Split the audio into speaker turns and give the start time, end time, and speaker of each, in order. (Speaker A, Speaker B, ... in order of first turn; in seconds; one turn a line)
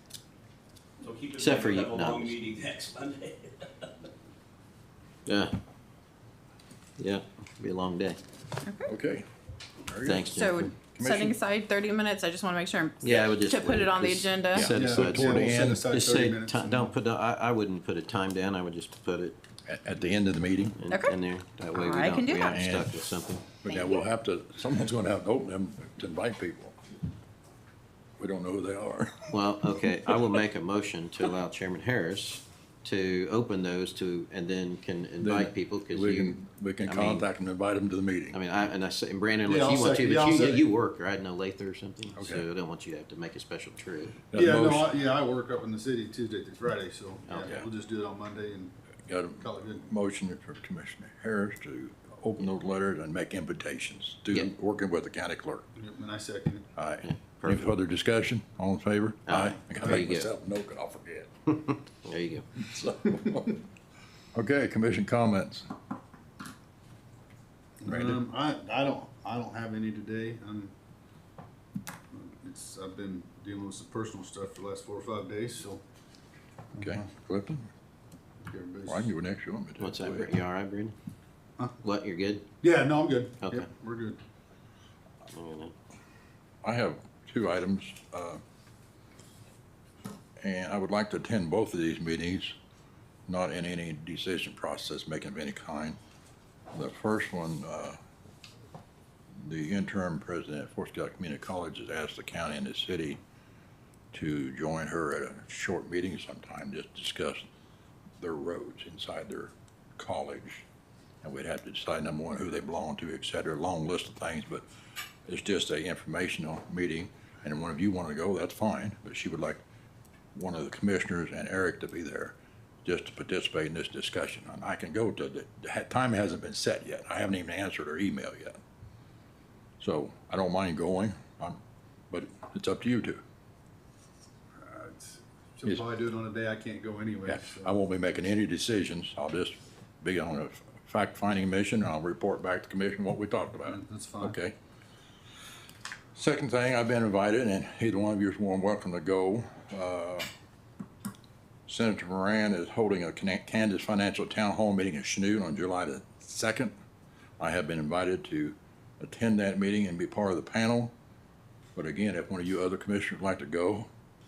Speaker A: 1.0-3.9
Speaker B: 1.4-2.4
Speaker B: 5.3-5.5
Speaker B: 7.0-8.2
Speaker C: 8.9-9.3
Speaker C: 9.9-11.4
Speaker B: 10.1-10.7
Speaker D: 10.3-14.7
Speaker B: 13.0-19.4
Speaker C: 14.5-15.8
Speaker E: 14.7-16.9
Speaker C: 19.7-20.8
Speaker B: 20.8-23.5
Speaker D: 21.7-22.6
Speaker C: 22.5-23.0
Speaker C: 23.6-26.8
Speaker D: 23.7-24.0
Speaker C: 28.2-29.4
Speaker B: 29.3-37.3
Speaker C: 35.2-38.4
Speaker B: 38.3-44.2
Speaker E: 39.5-40.6
Speaker C: 42.2-42.5
Speaker C: 44.3-44.9
Speaker E: 44.3-48.7
Speaker B: 47.3-47.6
Speaker C: 49.1-55.7
Speaker E: 49.4-49.8
Speaker E: 55.8-56.7
Speaker C: 56.8-61.5
Speaker B: 57.0-57.7
Speaker B: 59.3-60.3
Speaker B: 61.7-62.5
Speaker C: 62.6-63.6
Speaker C: 64.3-65.7
Speaker E: 67.8-70.7
Speaker C: 67.9-68.2
Speaker E: 72.1-75.8
Speaker C: 76.8-77.7
Speaker E: 76.8-77.1
Speaker E: 78.4-79.1
Speaker C: 78.9-80.3
Speaker B: 79.8-81.0
Speaker B: 81.8-82.5
Speaker E: 82.6-84.2
Speaker B: 85.3-85.7
Speaker C: 86.6-88.4
Speaker C: 90.4-92.5
Speaker C: 93.3-96.0
Speaker C: 96.7-98.0
Speaker C: 99.4-103.2
Speaker C: 104.1-107.5
Speaker C: 108.2-110.7
Speaker C: 111.2-114.7
Speaker C: 115.3-119.6
Speaker C: 120.3-128.6
Speaker C: 129.8-133.2
Speaker E: 134.6-137.7
Speaker C: 137.3-144.5
Speaker E: 143.6-144.4
Speaker C: 146.2-150.3
Speaker C: 151.7-156.7
Speaker C: 157.4-160.9
Speaker C: 161.8-163.9